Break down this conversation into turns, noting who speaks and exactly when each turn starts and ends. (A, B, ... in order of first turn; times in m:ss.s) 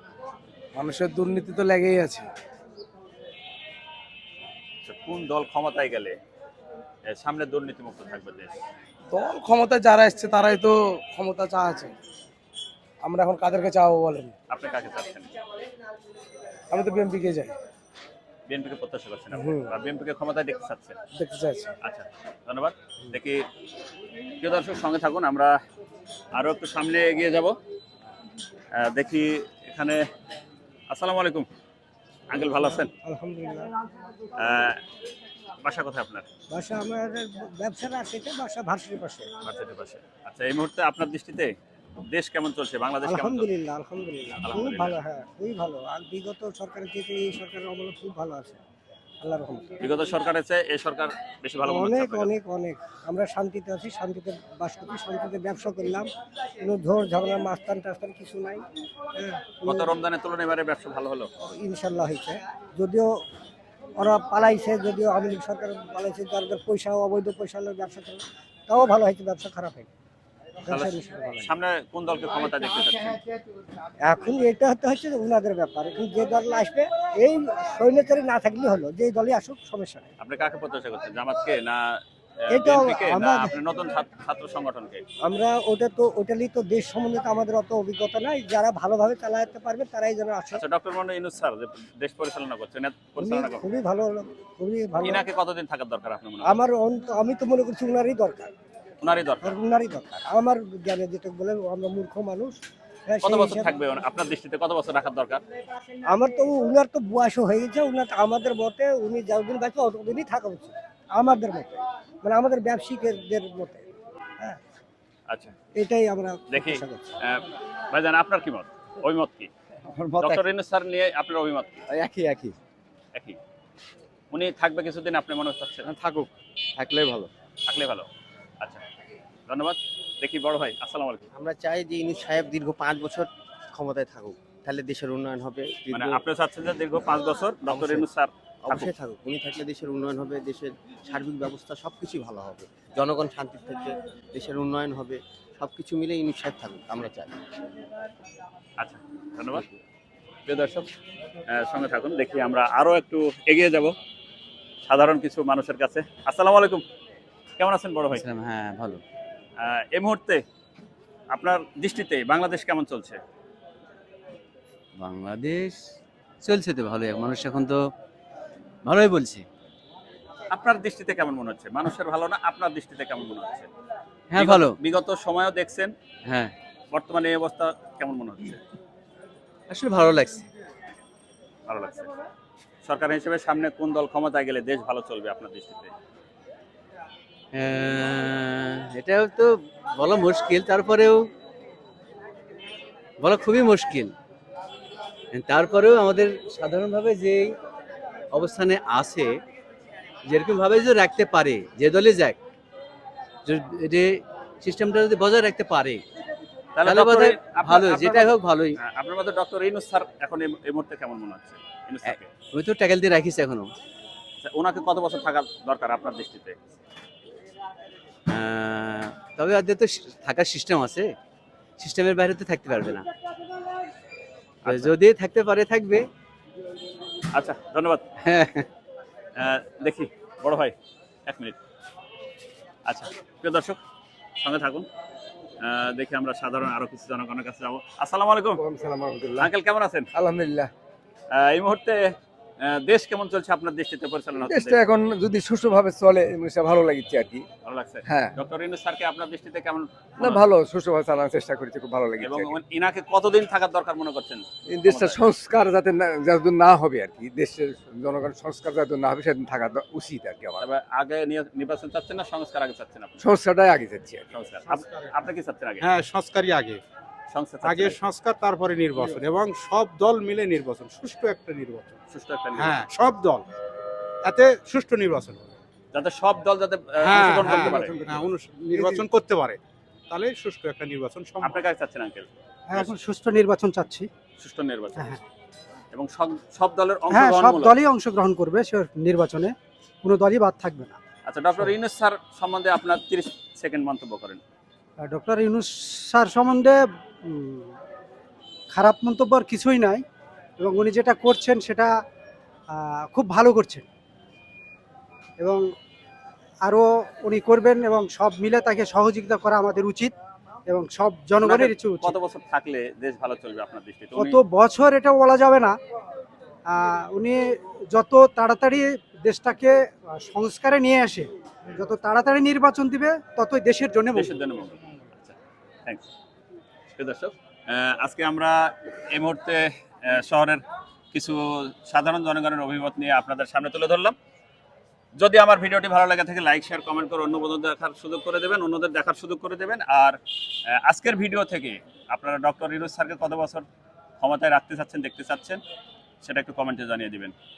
0:00.7-0:02.3 A
0:04.8-0:06.2 B
0:07.1-0:08.6 B
0:09.1-0:11.9 A
0:13.0-0:14.3 A
0:14.5-0:15.3 B
0:16.7-0:17.5 A
0:18.5-0:21.0 B
0:19.4-0:19.6 A
0:21.2-0:21.7 A
0:21.8-0:23.4 B
0:24.4-0:25.5 B
0:26.4-0:27.5 B
0:28.8-0:30.0 B
0:30.9-0:31.4 B
0:32.3-0:32.9 B
0:33.0-0:33.7 C
0:34.4-0:34.8 B
0:35.6-0:36.2 B
0:36.5-0:39.3 C
0:39.4-0:41.5 B
0:42.1-0:43.5 B
0:43.0-0:48.6 C
0:44.4-0:44.9 B
0:49.2-0:49.8 C
0:49.8-0:52.3 B
0:51.6-0:56.1 C
0:56.6-0:58.6 C
0:59.2-0:59.9 C
0:59.6-1:01.3 B
1:01.4-1:03.1 C
1:04.0-1:09.9 C
1:10.6-1:11.5 C
1:10.7-1:13.2 B
1:14.0-1:20.1 C
1:20.2-1:25.0 B
1:22.5-1:23.5 C
1:25.2-1:30.6 C
1:30.5-1:33.6 B
1:33.2-1:35.2 C
1:35.0-1:36.6 B
1:36.4-1:38.5 C
1:39.0-1:39.6 B
1:39.4-1:42.5 C
1:43.1-1:43.7 C
1:43.2-1:45.4 B
1:46.1-1:53.8 C
1:55.7-1:57.1 C
1:56.5-1:59.5 B
2:00.0-2:00.4 D
2:00.2-2:01.8 B
2:01.9-2:02.5 D
2:04.3-2:05.8 B
2:05.8-2:07.3 D
2:07.7-2:08.1 B
2:09.5-2:11.2 B
2:11.3-2:16.2 D
2:15.9-2:18.9 B
2:17.7-2:18.0 D
2:18.6-2:27.4 D
2:28.8-2:29.6 B
2:30.4-2:30.9 B
2:31.5-2:33.9 B
2:34.8-2:36.8 B
2:37.6-2:38.2 B
2:38.1-2:39.0 E
2:39.6-2:40.4 B
2:41.3-2:43.2 B
2:45.0-2:45.8 E
2:46.4-2:47.8 E
2:48.8-2:49.4 E
2:50.5-2:53.7 B
2:54.3-2:54.7 E
2:54.3-2:55.9 B
2:56.3-2:56.5 E
2:56.9-2:58.6 B
2:59.7-3:00.5 E
3:01.7-3:02.1 B
3:02.8-3:05.9 B
3:07.5-3:11.2 E
3:13.2-3:14.1 E
3:15.3-3:17.6 E
3:18.3-3:19.3 E
3:20.3-3:22.4 E
3:23.4-3:26.0 E
3:26.8-3:32.3 B
3:26.8-3:28.7 E
3:32.0-3:33.7 E
3:34.4-3:36.6 B
3:38.3-3:41.1 E
3:41.8-3:43.1 E
3:44.6-3:44.9 B
3:44.6-3:46.0 E
3:47.3-3:48.0 B
3:48.2-3:48.6 E
3:49.4-3:50.7 B
3:51.3-3:51.6 B
3:52.8-3:53.8 B
3:54.4-3:54.8 B
3:55.6-3:58.6 B
3:58.6-3:59.5 F
3:59.4-4:00.0 B
4:00.2-4:00.7 F
4:01.3-4:02.0 B
4:02.6-4:04.9 B
4:04.5-4:07.4 F
4:07.6-4:10.4 B
4:08.1-4:08.3 F
4:10.2-4:12.5 F
4:12.2-4:15.2 B
4:14.7-4:20.6 F
4:20.6-4:23.2 B
4:23.2-4:24.2 F
4:24.3-4:25.9 B
4:24.7-4:25.0 G
4:25.8-4:26.8 G
4:27.3-4:28.0 B
4:27.6-4:32.0 G
4:32.1-4:32.9 B
4:32.6-4:33.4 G
4:34.2-4:35.6 G
4:35.9-4:38.2 B
4:37.0-4:41.6 G
4:41.4-4:43.0 B
4:42.7-4:44.1 H
4:44.4-4:45.2 B
4:45.9-4:47.8 B
4:47.1-4:49.5 H
4:50.0-4:51.0 H
4:51.2-4:54.4 B
4:55.0-4:57.7 H
4:58.7-5:00.0 H
5:00.6-5:01.9 H
5:02.7-5:03.8 H
5:06.6-5:10.1 H
5:10.7-5:12.1 H
5:11.4-5:14.4 B
5:14.2-5:15.7 H
5:16.7-5:17.4 H
5:17.9-5:24.4 H
5:24.1-5:26.1 B
5:26.9-5:30.6 B
5:31.1-5:34.1 B
5:35.2-5:40.2 B
5:40.8-5:43.6 B
5:44.2-5:45.6 B
5:46.2-5:47.3 B